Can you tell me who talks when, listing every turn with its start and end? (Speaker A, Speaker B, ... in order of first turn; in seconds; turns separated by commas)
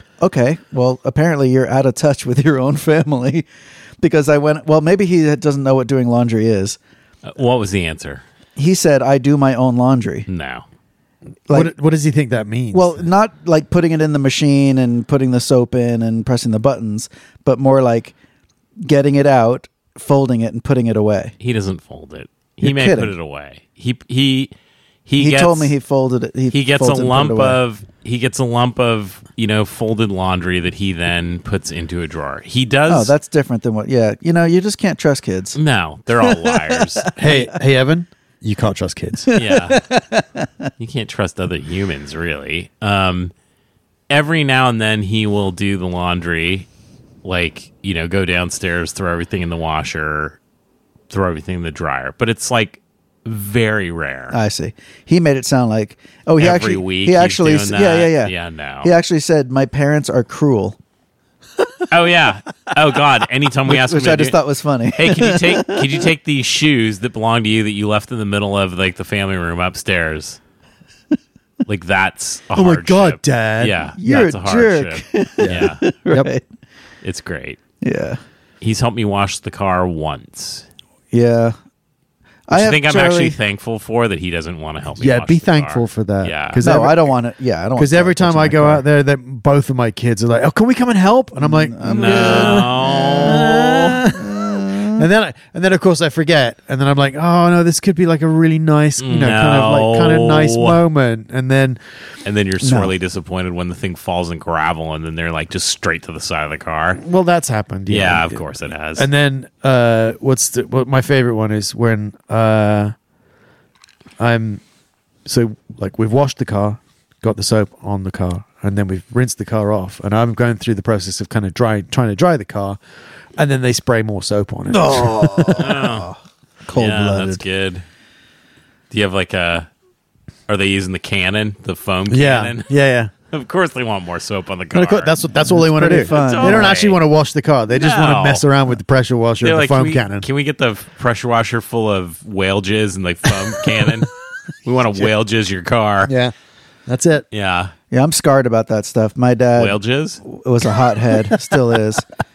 Speaker A: 0.2-3.5, Speaker A: 4.0-6.8, Speaker B: 7.3-8.2, Speaker A: 8.6-10.3, Speaker B: 10.3-10.7, Speaker C: 11.5-13.1, Speaker A: 12.7-18.1, Speaker A: 18.8-21.3, Speaker B: 21.4-24.5, Speaker A: 22.6-23.1, Speaker B: 25.1-25.7, Speaker A: 25.2-27.6, Speaker B: 26.5-33.1, Speaker A: 32.9-35.6, Speaker B: 35.5-37.1, Speaker A: 36.2-37.6, Speaker C: 37.2-39.3, Speaker A: 39.3-40.5, Speaker B: 39.3-39.8, Speaker B: 40.8-43.3, Speaker B: 44.1-46.7, Speaker B: 47.2-50.4, Speaker B: 51.1-54.4, Speaker A: 54.3-60.8, Speaker B: 56.4-58.9, Speaker B: 61.9-64.4, Speaker A: 63.7-66.0, Speaker B: 64.9-70.4, Speaker B: 71.7-75.8, Speaker C: 72.5-74.0, Speaker A: 74.0-76.4, Speaker C: 75.4-76.3, Speaker B: 77.0-77.6, Speaker A: 77.8-78.2, Speaker B: 78.6-80.7, Speaker A: 81.1-81.5, Speaker A: 82.5-83.4, Speaker B: 82.5-86.7, Speaker C: 85.0-87.1, Speaker A: 86.6-88.8, Speaker C: 87.8-102.0, Speaker A: 91.4-95.1, Speaker B: 91.8-94.0, Speaker B: 99.0-100.8, Speaker B: 102.2-107.0, Speaker A: 102.6-102.9, Speaker C: 107.0-108.4, Speaker B: 107.9-109.1, Speaker C: 109.0-112.9, Speaker C: 114.2-114.6, Speaker C: 115.2-122.8, Speaker C: 123.4-125.7, Speaker A: 124.7-127.4, Speaker B: 125.6-126.1, Speaker B: 126.7-127.8, Speaker B: 128.9-129.7, Speaker B: 130.5-132.7, Speaker C: 132.1-133.1, Speaker B: 133.3-135.2, Speaker C: 134.7-140.3, Speaker A: 135.4-136.8, Speaker B: 136.0-137.0, Speaker B: 137.7-138.5, Speaker B: 139.4-144.1, Speaker B: 144.7-146.1, Speaker C: 146.1-146.3, Speaker C: 146.9-147.3, Speaker B: 147.3-147.7, Speaker A: 147.9-152.1, Speaker B: 149.6-150.2